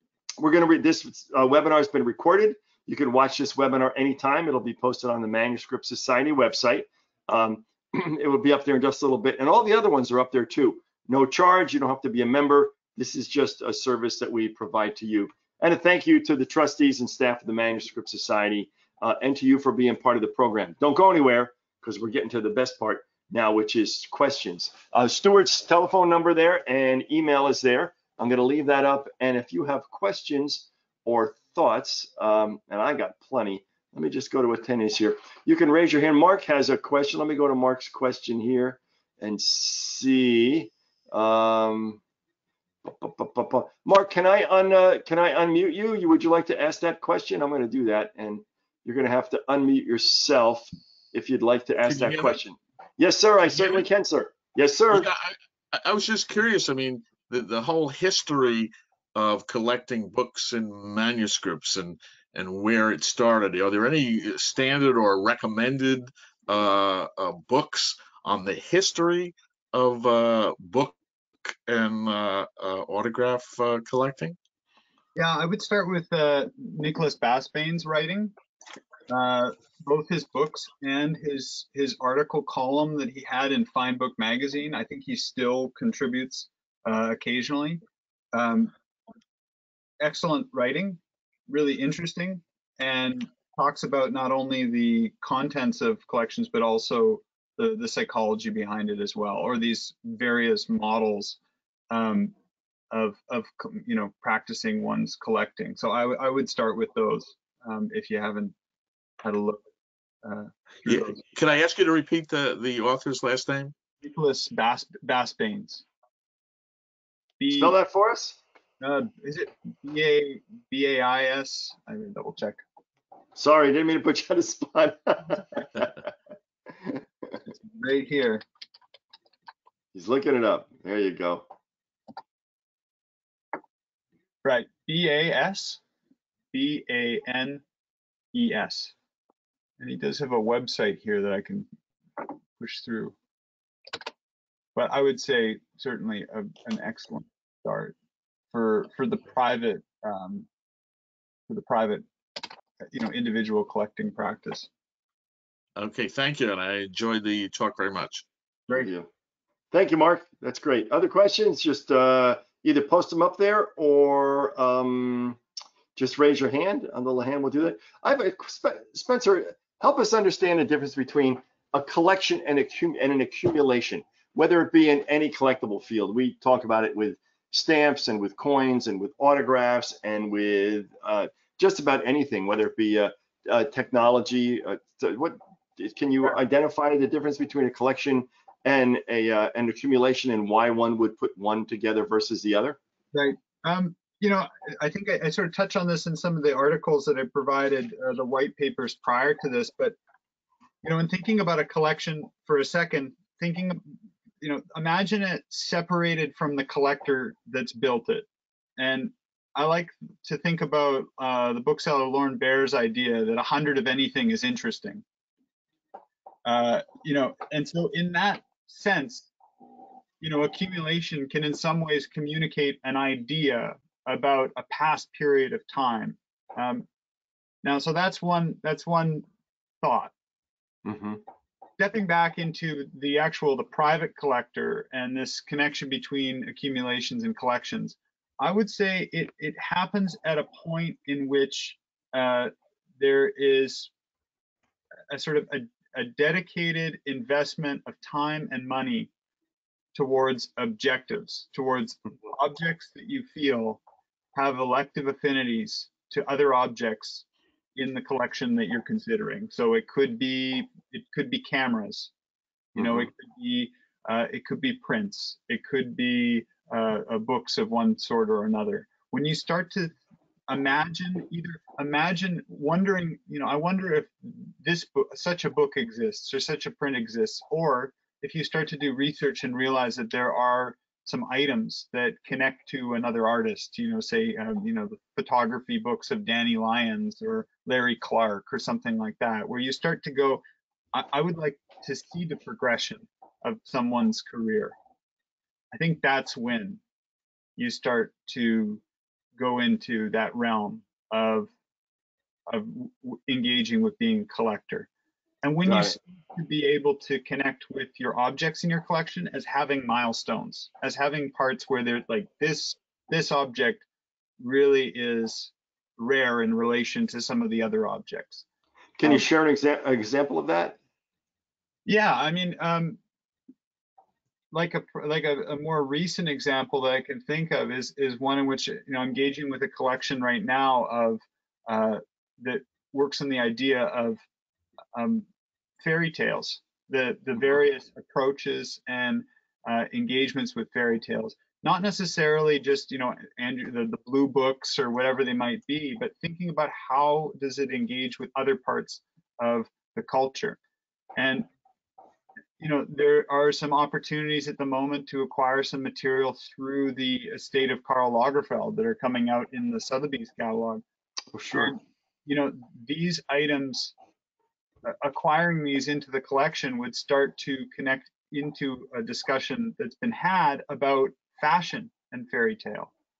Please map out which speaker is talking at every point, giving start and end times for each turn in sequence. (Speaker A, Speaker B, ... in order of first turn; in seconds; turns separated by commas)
Speaker A: 0.4-42.0, Speaker A: 42.8-55.1, Speaker B: 51.9-52.4, Speaker B: 53.5-53.8, Speaker B: 54.9-74.4, Speaker C: 75.2-78.3, Speaker C: 79.1-87.8, Speaker C: 88.3-88.7, Speaker C: 90.0-101.4, Speaker C: 101.9-102.3, Speaker C: 102.9-108.5, Speaker C: 109.2-109.6, Speaker C: 110.2-111.2, Speaker B: 110.9-113.7, Speaker C: 114.0-115.8, Speaker C: 117.4-117.7, Speaker A: 117.5-118.4, Speaker C: 118.8-122.6, Speaker A: 123.3-126.0, Speaker C: 127.5-128.4, Speaker A: 129.9-131.5, Speaker C: 134.4-135.8, Speaker C: 136.5-137.6, Speaker C: 138.3-138.9, Speaker C: 139.8-141.7, Speaker C: 142.2-143.1, Speaker C: 144.8-147.9, Speaker C: 148.5-150.5, Speaker C: 151.5-152.1, Speaker C: 152.9-154.7, Speaker B: 155.8-158.2, Speaker A: 158.7-159.1, Speaker A: 159.7-165.4, Speaker A: 165.9-192.8, Speaker C: 193.1-199.9, Speaker C: 200.8-208.2, Speaker C: 208.8-215.0, Speaker C: 216.4-219.3, Speaker C: 220.2-226.8, Speaker C: 227.6-229.2, Speaker C: 229.8-230.1, Speaker A: 230.8-231.2, Speaker C: 231.8-243.9, Speaker C: 245.1-249.1, Speaker C: 249.9-253.8, Speaker C: 254.3-257.2, Speaker C: 257.8-262.1, Speaker A: 262.7-263.1, Speaker C: 262.8-269.9, Speaker C: 270.5-290.4, Speaker C: 290.9-294.7, Speaker C: 295.7-296.8, Speaker C: 297.6-298.8, Speaker C: 299.4-301.5, Speaker C: 302.5-304.9, Speaker C: 305.4-313.9, Speaker A: 305.6-305.9, Speaker C: 314.4-318.4, Speaker A: 319.0-320.8, Speaker C: 321.9-323.0, Speaker C: 324.5-334.2, Speaker C: 334.9-335.2, Speaker C: 335.8-350.6, Speaker C: 351.2-351.4, Speaker C: 352.6-360.8, Speaker A: 361.3-361.7, Speaker C: 361.5-363.9, Speaker C: 364.8-372.9